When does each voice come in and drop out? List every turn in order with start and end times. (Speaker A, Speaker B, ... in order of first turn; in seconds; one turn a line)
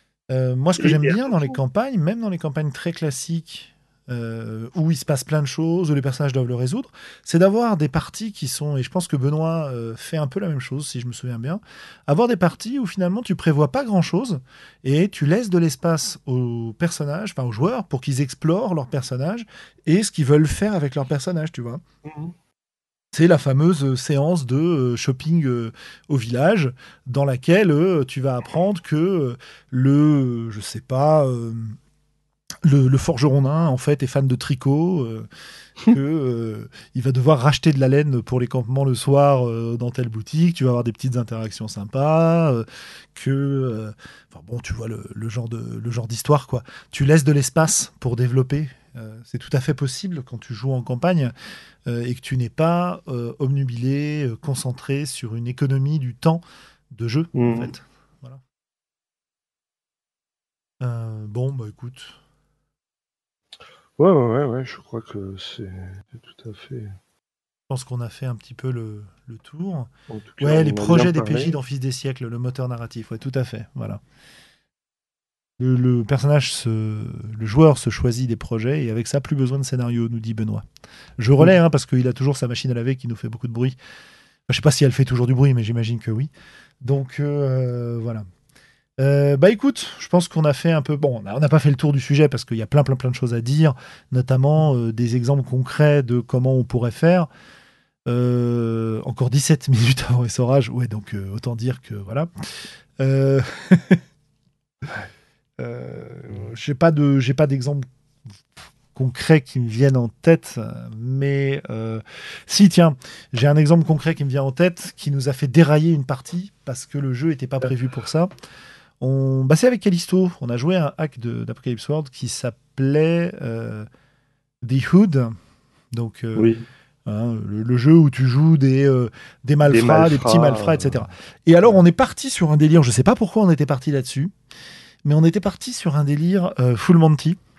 Speaker A: 0.3-21.8
Speaker B: 0.8-1.6
Speaker B: 22.1-22.3
Speaker A: 23.1-31.8
Speaker A: 32.6-35.3
Speaker A: 35.9-51.3
Speaker A: 51.9-58.4
Speaker B: 57.4-57.7
Speaker A: 60.8-62.2
Speaker B: 64.0-67.0
Speaker A: 67.7-74.0
Speaker B: 70.1-71.6
Speaker A: 75.6-80.7
Speaker A: 81.2-83.8
Speaker A: 84.5-86.3
Speaker A: 86.8-88.2
Speaker A: 89.0-97.3
Speaker A: 98.1-104.0
Speaker A: 105.6-107.8
Speaker A: 109.0-118.3
Speaker A: 119.0-123.9
Speaker A: 124.6-125.3
Speaker A: 125.9-126.5
Speaker B: 126.4-126.6
Speaker A: 127.1-134.3
Speaker B: 129.7-131.1
Speaker A: 135.0-137.4